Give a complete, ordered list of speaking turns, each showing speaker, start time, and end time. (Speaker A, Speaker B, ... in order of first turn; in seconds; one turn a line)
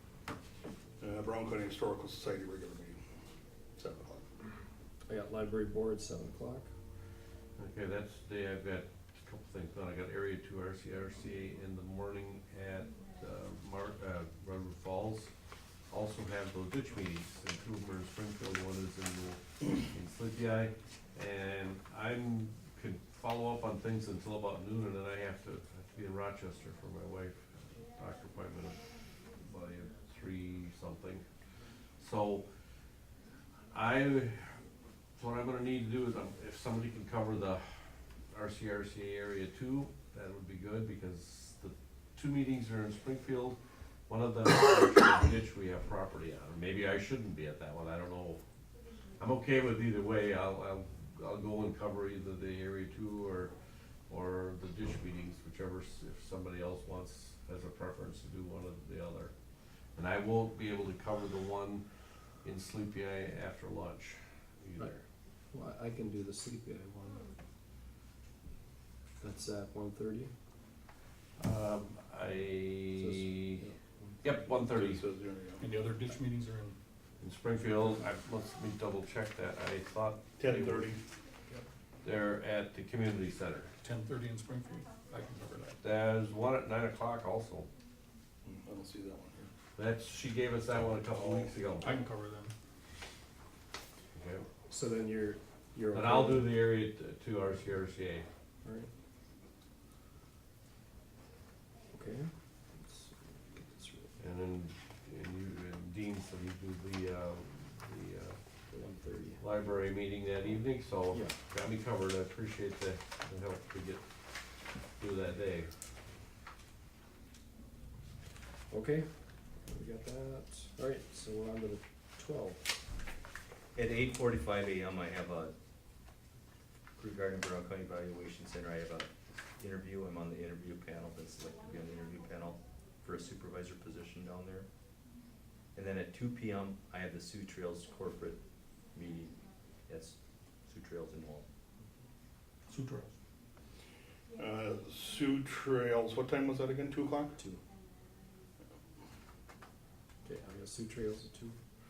Speaker A: 1.0-3.0
Speaker A: 3.8-4.2
Speaker B: 5.0-6.7
Speaker C: 7.5-15.3
Speaker C: 15.9-31.2
Speaker C: 32.0-32.4
Speaker C: 33.7-34.6
Speaker C: 35.2-48.4
Speaker C: 49.2-53.5
Speaker C: 54.1-59.3
Speaker C: 59.9-61.8
Speaker C: 62.4-65.0
Speaker B: 65.5-67.3
Speaker B: 69.2-70.3
Speaker C: 71.4-73.6
Speaker B: 73.0-74.3
Speaker C: 74.2-75.0
Speaker A: 74.7-75.7
Speaker D: 75.6-76.8
Speaker C: 77.2-80.9
Speaker A: 80.4-81.0
Speaker C: 82.0-83.7
Speaker D: 83.8-85.8
Speaker C: 85.8-87.7
Speaker A: 88.4-89.5
Speaker C: 89.8-92.0
Speaker D: 91.8-92.5
Speaker C: 94.1-94.5
Speaker B: 94.7-96.6
Speaker C: 95.9-98.3
Speaker B: 98.6-98.9
Speaker B: 101.9-104.1
Speaker C: 104.2-108.4
Speaker B: 108.7-109.4
Speaker C: 109.4-114.1
Speaker C: 115.0-115.7
Speaker B: 118.7-122.8
Speaker E: 123.7-125.5
Speaker E: 127.0-134.7
Speaker E: 135.7-138.4
Speaker E: 138.9-140.1
Speaker E: 140.7-141.4
Speaker D: 142.7-143.1
Speaker A: 144.3-147.4
Speaker B: 150.2-151.6